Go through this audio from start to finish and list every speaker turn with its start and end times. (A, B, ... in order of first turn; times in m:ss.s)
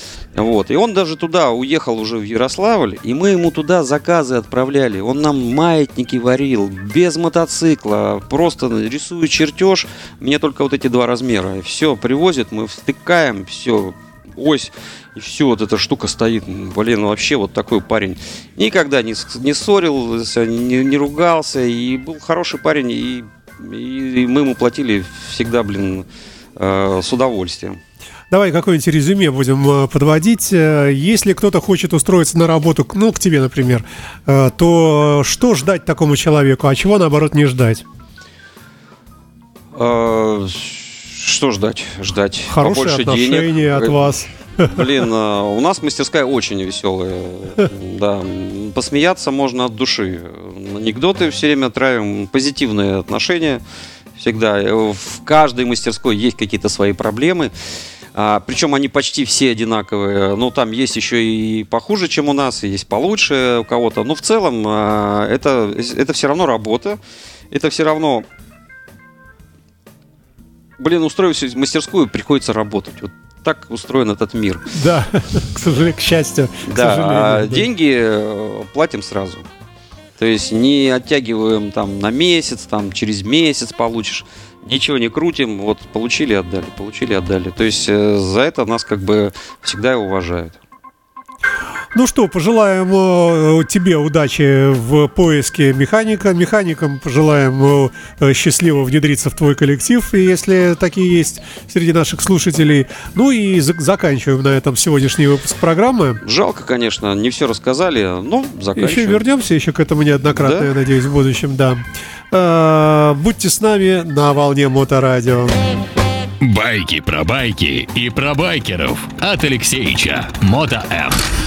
0:00.4-0:27.8 A
0:28.3-0:37.8 B
0:39.8-0:53.6 A
0:42.5-0:44.9 B
0:54.2-0:57.5 A
0:58.1-1:07.0 A
1:07.5-1:08.3 A
1:10.8-1:14.7 A
1:14.7-1:17.7 B
1:16.6-1:19.5 A
1:20.2-1:30.6 A
1:31.9-1:46.2 B
1:46.2-1:49.2 A
1:48.8-1:55.5 B
1:50.3-1:50.7 A
1:56.4-2:01.2 C